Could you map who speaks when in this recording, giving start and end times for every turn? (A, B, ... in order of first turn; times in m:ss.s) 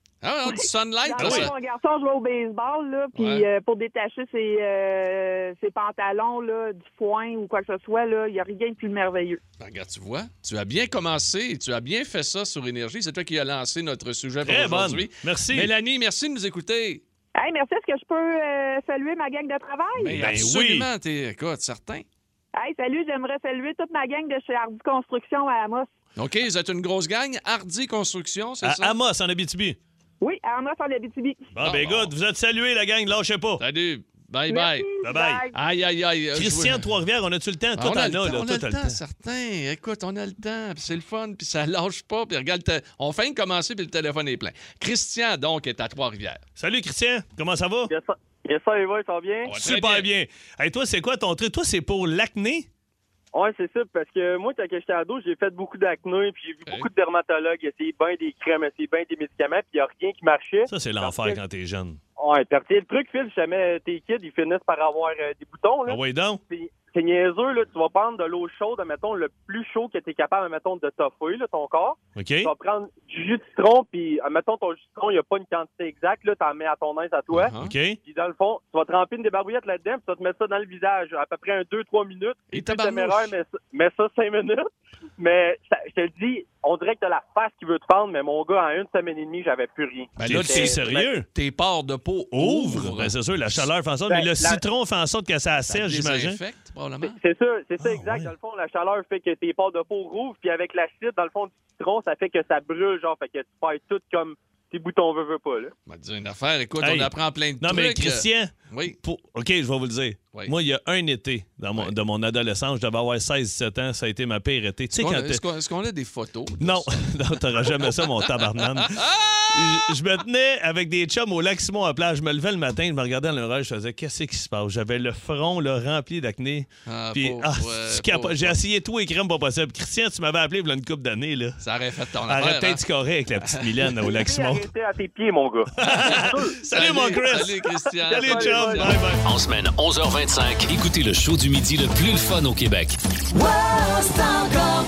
0:00.2-0:01.5 A
0:00.5-0:09.4 B
0:01.2-0:01.5 C
0:03.1-0:03.4 A
0:09.6-0:17.0 A
0:14.4-0:15.7 C
0:17.4-0:20.1 B
0:20.0-0:22.0 A
0:20.1-0:20.9 C
0:22.6-0:25.9 B
0:26.2-0:28.9 A
0:28.6-0:29.8 C
0:30.2-0:31.5 B
0:31.5-0:33.6 C
0:31.6-0:32.1 A
0:33.6-0:34.9 A
0:34.5-0:35.5 B
0:35.0-0:35.4 C
0:35.5-0:36.8 A
0:36.4-0:39.0 C
0:37.8-0:46.4 A
0:46.6-0:47.9 C
0:47.9-0:49.5 D
0:49.4-0:50.1 A
0:49.6-0:52.7 C
0:53.3-1:01.4 D
1:00.7-1:02.0 C
1:02.2-1:17.5 D
1:05.9-1:06.4 C
1:12.2-1:12.5 C
1:17.3-1:17.7 A
1:17.6-1:18.0 C
1:18.0-1:24.6 D
1:22.5-1:23.3 A
1:25.2-1:31.1 D
1:30.2-1:33.1 A
1:30.2-1:31.3 C
1:32.3-1:36.4 C
1:34.1-1:34.6 D
1:35.7-1:37.2 A
1:37.0-1:45.7 D
1:37.8-1:38.3 C
1:45.9-1:49.0 A
1:46.8-1:55.4 C
1:54.9-1:59.9 A
1:56.6-2:11.6 C
2:06.9-2:08.6 A
2:11.6-2:12.8 A
2:12.3-2:14.7 C
2:13.4-2:13.9 A
2:14.0-2:16.6 D
2:15.8-2:19.2 C
2:15.8-2:18.9 A
2:18.1-2:18.9 D
2:19.2-2:23.0 E